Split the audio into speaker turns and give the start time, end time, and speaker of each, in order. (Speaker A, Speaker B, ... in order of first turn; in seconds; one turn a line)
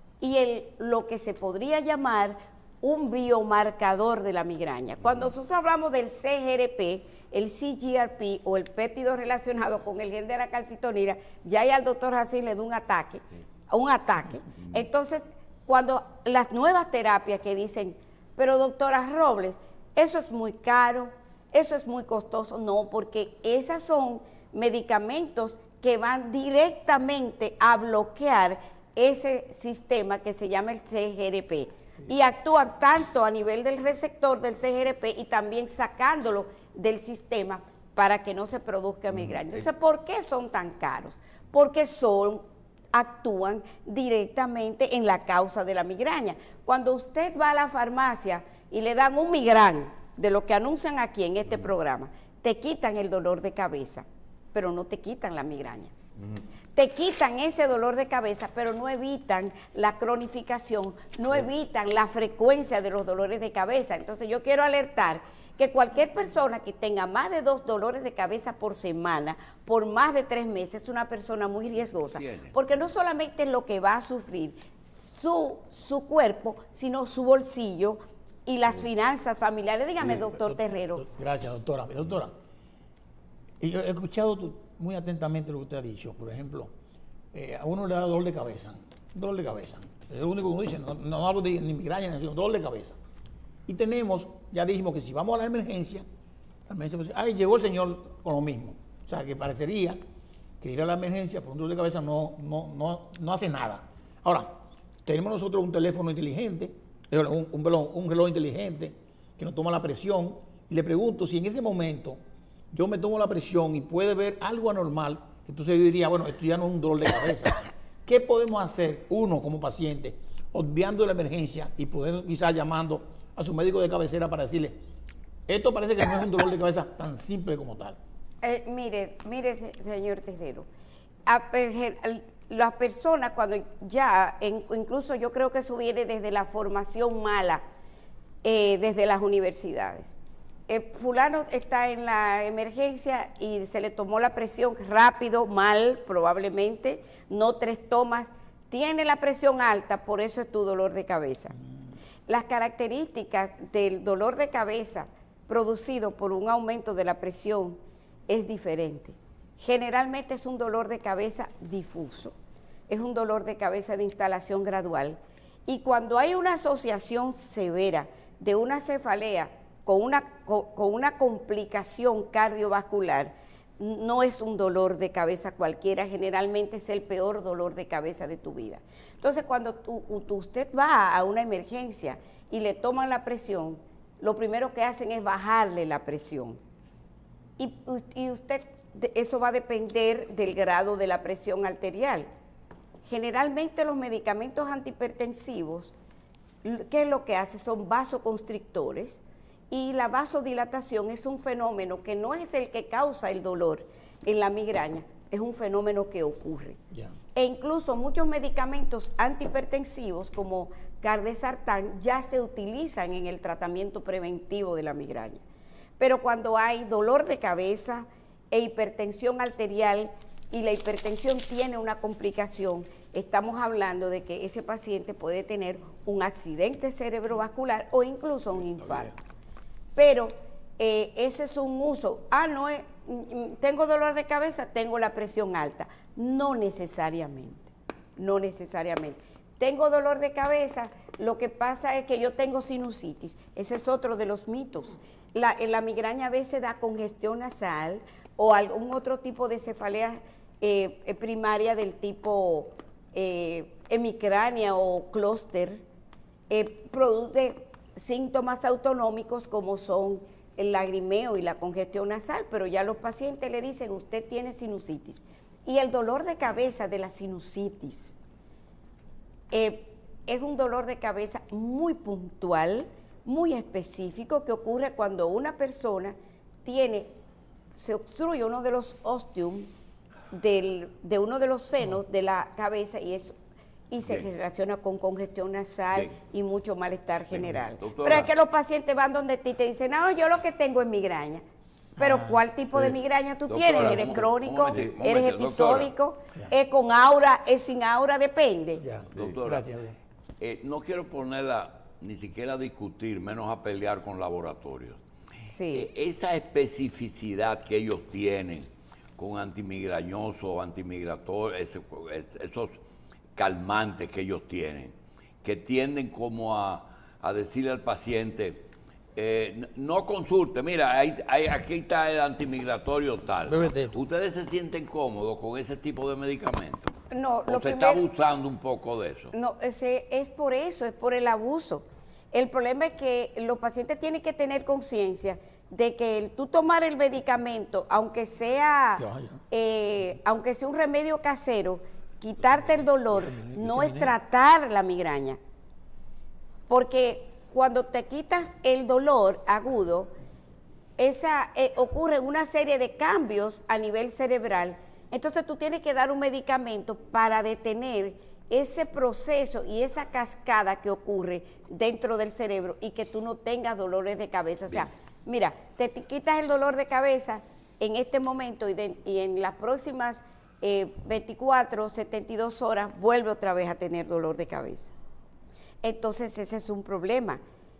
Speaker A: 0.2-55.9
Speaker A: 56.7-81.0
Speaker B: 72.1-72.5
Speaker C: 81.0-82.3
Speaker C: 83.6-86.7
Speaker C: 87.3-93.0
Speaker C: 93.7-96.0
Speaker C: 96.7-100.0
Speaker C: 100.6-112.2
Speaker C: 112.7-124.8
Speaker C: 125.5-128.0
Speaker A: 128.4-130.7
Speaker A: 131.2-137.6
Speaker A: 138.4-140.2
Speaker A: 140.7-151.6
Speaker A: 152.3-162.3
Speaker A: 162.9-186.6
Speaker A: 187.6-192.3
Speaker A: 193.0-195.9
Speaker A: 196.6-206.8
Speaker A: 207.3-215.4
Speaker A: 216.0-229.1
Speaker A: 229.9-255.8
Speaker A: 256.5-268.2
Speaker A: 269.5-277.1
Speaker A: 277.7-279.7
Speaker A: 280.3-283.4
Speaker A: 283.9-291.4
Speaker B: 287.7-288.3
Speaker A: 292.0-298.8
Speaker C: 292.0-292.4
Speaker B: 293.5-295.9
Speaker C: 298.8-300.0
Speaker B: 299.1-299.7
Speaker B: 300.4-305.0
Speaker A: 305.5-305.9
Speaker B: 305.7-312.8
Speaker B: 313.4-326.9
Speaker C: 323.5-323.9
Speaker A: 327.1-328.0
Speaker B: 327.5-329.3
Speaker A: 329.3-345.4
Speaker C: 339.0-339.4
Speaker C: 343.3-344.1
Speaker A: 346.7-350.1
Speaker A: 351.0-374.9
Speaker A: 375.8-377.4